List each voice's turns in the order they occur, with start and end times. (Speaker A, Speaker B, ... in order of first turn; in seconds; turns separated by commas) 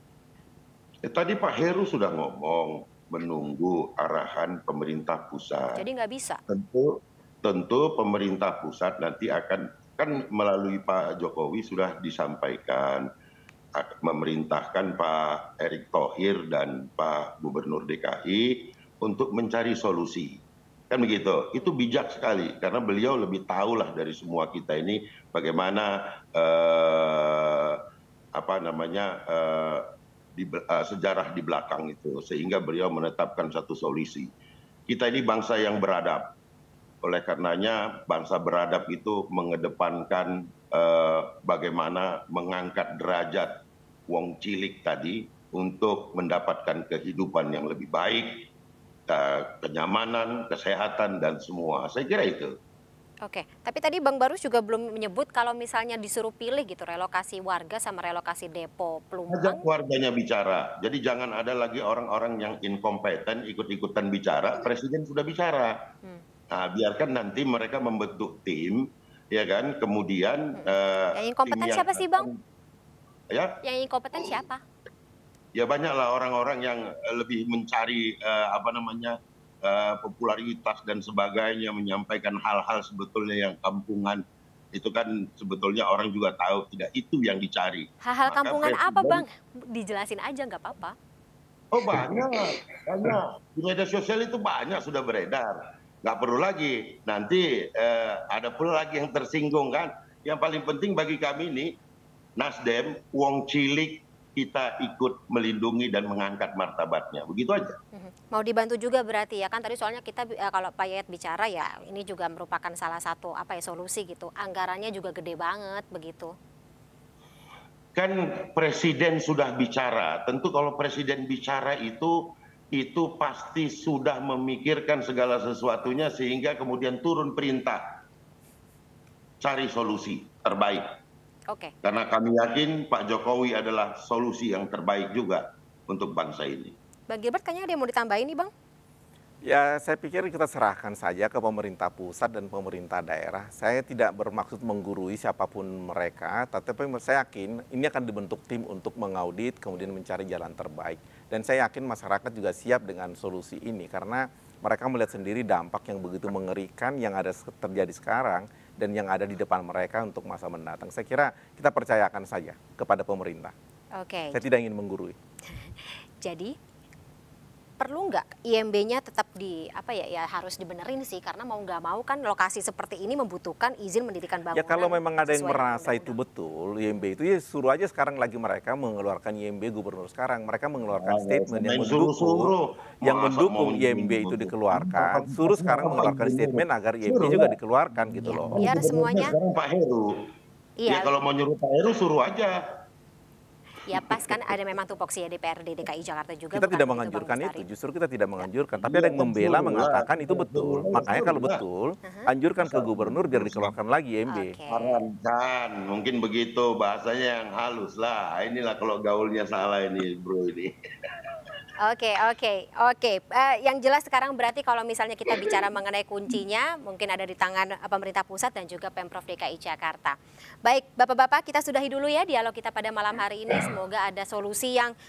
Speaker A: 1.0-5.8, Speaker B: 5.8-6.4, Speaker A: 6.5-13.1, Speaker A: 13.7-27.8, Speaker A: 28.3-34.3, Speaker A: 34.9-36.3, Speaker A: 37.0-43.5, Speaker A: 44.1-48.4, Speaker A: 49.1-52.5, Speaker B: 53.2-59.6, Speaker A: 59.3-65.8, Speaker A: 66.5-72.4, Speaker B: 70.5-72.3, Speaker A: 73.3-73.6, Speaker B: 73.6-74.6, Speaker A: 75.5-89.2, Speaker B: 88.0-91.0, Speaker A: 91.7-101.7, Speaker A: 102.4-107.8, Speaker B: 107.9-116.3, Speaker A: 117.9-127.8, Speaker A: 129.4-130.9, Speaker A: 131.8-136.7, Speaker B: 137.1-138.5, Speaker C: 139.4-163.5, Speaker B: 163.9-164.4, Speaker C: 164.3-165.2, Speaker B: 165.5-166.5, Speaker B: 167.8-176.2, Speaker C: 174.5-182.5, Speaker A: 180.9-190.2, Speaker C: 183.0-188.7, Speaker B: 188.2-189.3, Speaker B: 190.8-191.1, Speaker A: 190.9-192.5, Speaker B: 193.9-197.6, Speaker A: 193.9-194.5, Speaker C: 196.5-204.6, Speaker A: 198.8-201.6, Speaker B: 202.0-202.3, Speaker A: 202.6-203.7, Speaker B: 204.3-205.0, Speaker A: 204.7-211.2, Speaker B: 211.8-224.9